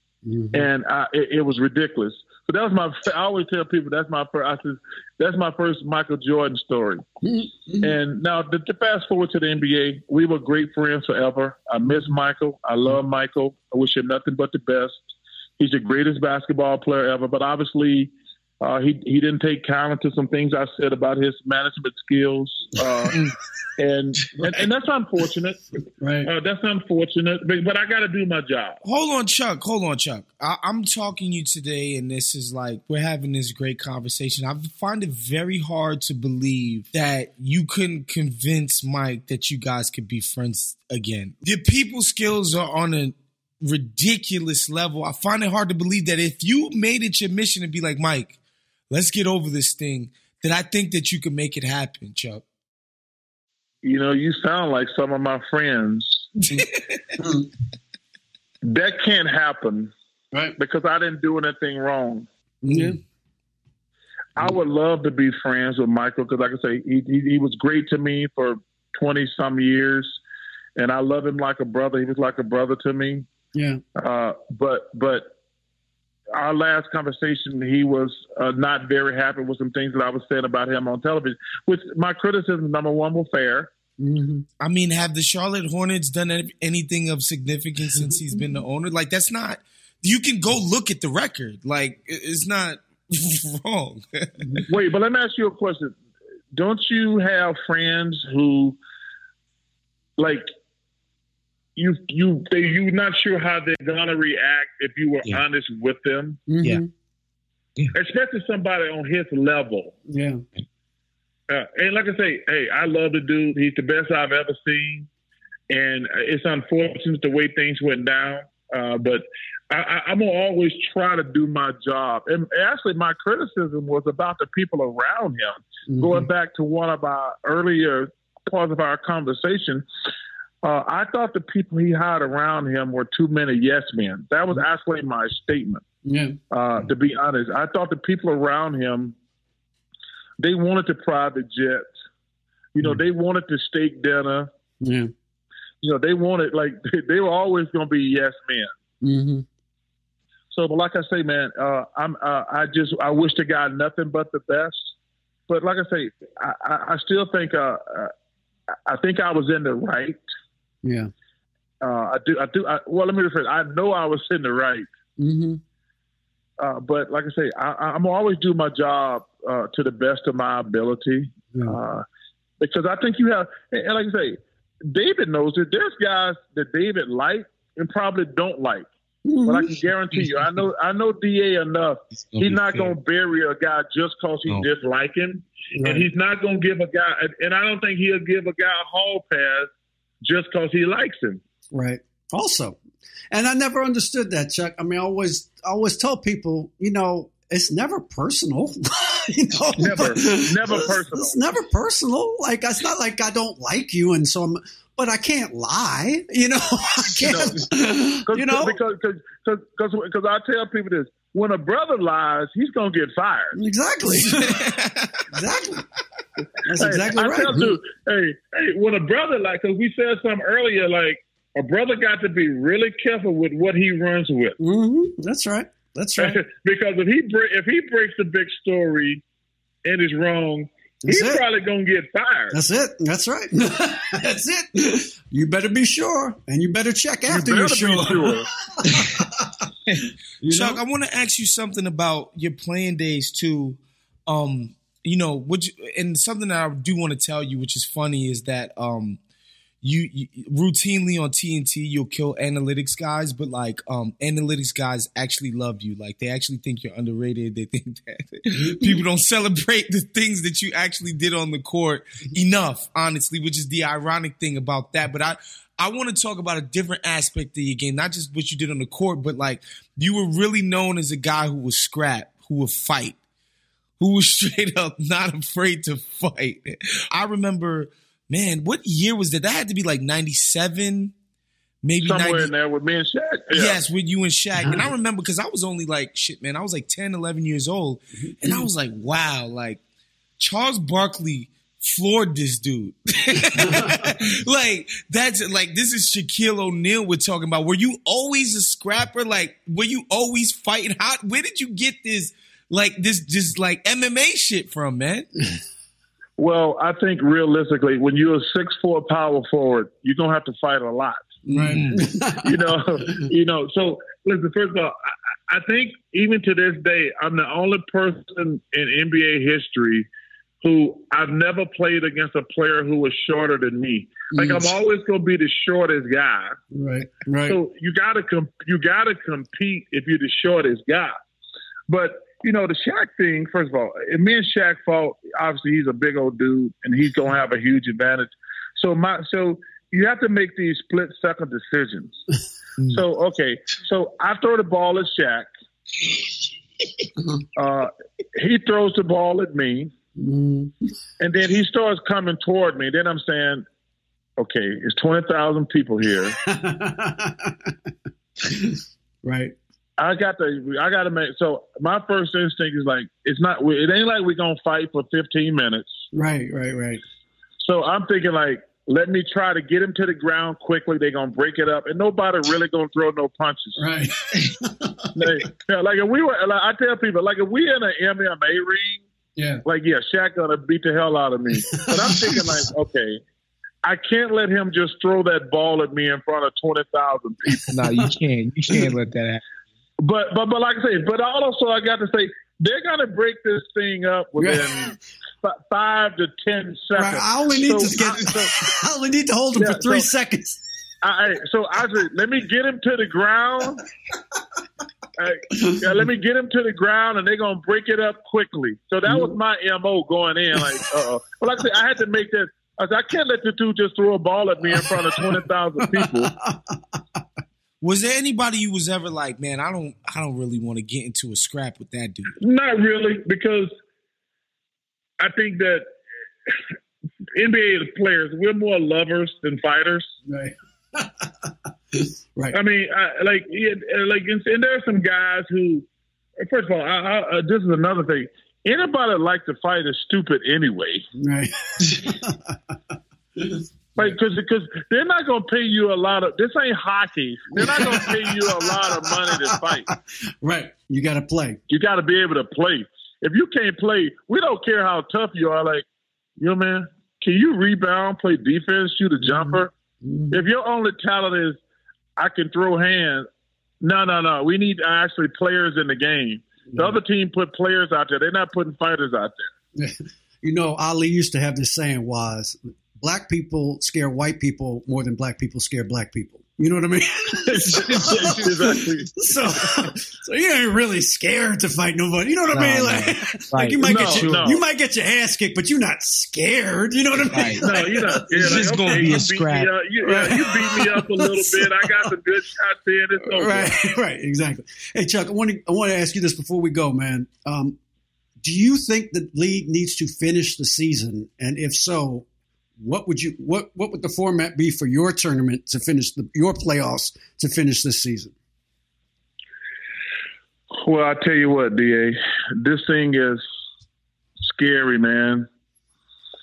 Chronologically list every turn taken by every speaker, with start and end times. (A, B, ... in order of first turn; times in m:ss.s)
0:00.2-0:00.6 A
0:00.5-0:07.1 B
0:07.2-0:07.9 A
0:07.8-0:23.2 B
0:23.8-0:25.6 B
0:26.0-0:26.3 A
0:26.2-0:28.8 B
0:28.8-0:48.4 C
0:48.9-0:52.4 C
0:53.8-0:56.5 B
0:56.5-0:56.8 C
0:57.2-0:57.5 A
0:58.6-0:59.9 B
1:00.6-1:02.3 B
1:02.6-1:03.0 A
1:02.7-1:03.0 C
1:04.4-1:10.2 B
1:10.8-1:13.3 B
1:13.5-1:13.8 A
1:14.0-1:15.3 B
1:16.4-1:23.7 B
1:24.0-1:24.5 A
1:24.6-1:34.6 C
1:28.0-1:28.6 A
1:34.7-1:36.0 B
1:36.5-1:38.8 B
1:40.2-1:40.5 B
1:41.8-1:46.4 B
1:46.5-1:46.9 A
1:47.9-1:50.0 B
1:50.1-1:50.4 A
1:51.5-1:55.1 B
1:55.7-2:09.8 B
2:05.9-2:06.3 A
2:10.6-2:15.8 B
2:16.0-2:16.4 A
2:16.5-2:19.2 B
2:20.4-2:21.9 B
2:22.7-2:24.5 B
2:24.8-2:25.1 A
2:25.8-2:28.7 B
2:29.0-2:29.5 A
2:30.5-2:34.9 B
2:35.5-2:38.1 B
2:38.9-2:40.2 B
2:40.8-2:41.1 A
2:41.8-2:44.9 B
2:45.2-2:45.6 A
2:46.6-2:52.0 B
2:52.6-2:58.9 B
2:59.2-2:59.8 A
2:59.4-3:09.7 B
3:02.3-3:02.9 C
3:05.8-3:06.1 A
3:10.2-3:11.4 B
3:11.7-3:12.8 A
3:13.3-3:28.8 A
3:19.8-3:21.4 B
3:27.2-3:27.6 B
3:28.3-3:33.6 B
3:33.6-3:34.6 A
3:34.1-3:35.2 C
3:35.3-3:35.9 A
3:36.6-3:37.8 A
3:36.8-3:44.6 B
3:44.6-3:46.4 A
3:46.2-3:49.2 B
3:49.8-3:52.6 B
3:51.0-3:51.4 A
3:52.5-3:59.7 A
3:57.3-3:58.5 B
4:00.4-4:00.8 A
4:00.5-4:09.2 C
4:09.8-4:33.2 C
4:18.6-4:19.0 A
4:34.0-4:41.1 C
4:41.8-4:42.5 C
4:42.0-4:43.8 B
4:43.5-4:49.8 C
4:48.4-4:48.7 A
4:50.4-5:05.3 C
4:53.6-4:54.1 A
5:06.4-5:11.2 B
5:11.5-5:12.5 A
5:11.5-5:12.0 C
5:12.4-5:15.0 B
5:15.5-5:20.1 B
5:20.6-5:26.6 B
5:24.3-5:24.7 A
5:26.7-5:27.6 A
5:27.4-5:31.2 B
5:31.9-5:42.2 B
5:42.9-5:45.5 B
5:47.6-5:49.9 B
5:50.2-5:50.8 A
5:51.2-5:53.6 B
5:54.4-5:56.4 B
5:56.3-5:57.8 A
5:58.4-5:59.6 A
6:00.0-6:06.0 B
6:06.1-6:07.0 A
6:07.6-6:13.8 B
6:13.8-6:15.1 A
6:15.2-6:19.0 B
6:19.4-6:19.6 A
6:19.6-6:23.2 B
6:21.7-6:22.5 A
6:23.8-6:27.8 B
6:27.7-6:29.4 C
6:30.0-6:38.5 B
6:34.4-6:34.8 A
6:36.9-6:40.6 A
6:39.6-6:40.1 B
6:41.0-6:43.8 B
6:45.2-6:56.3 B
6:49.1-6:49.4 A
6:54.7-6:57.2 A
6:57.8-7:02.4 C
7:02.4-7:03.7 B
7:05.2-7:05.8 B
7:07.4-7:10.1 B
7:10.3-7:12.6 A
7:12.5-7:15.9 B
7:16.4-7:21.1 B
7:21.2-7:22.8 A
7:23.4-7:24.1 A
7:24.0-7:29.9 B
7:27.6-7:31.6 A
7:31.7-7:35.9 B
7:36.4-7:39.7 B
7:39.2-7:40.4 A
7:40.3-7:41.6 B
7:42.2-7:43.3 B
7:43.8-7:49.5 B
7:49.8-8:09.2 A
7:57.4-7:59.5 B
8:02.5-8:04.5 C
8:03.8-8:04.6 B
8:07.3-8:07.7 C
8:07.6-8:13.8 B
8:08.3-8:09.7 C
8:10.0-8:12.0 A
8:13.3-8:17.8 A
8:18.4-8:22.3 A
8:22.8-8:28.3 A
8:30.8-8:33.4 B
8:34.4-8:35.5 B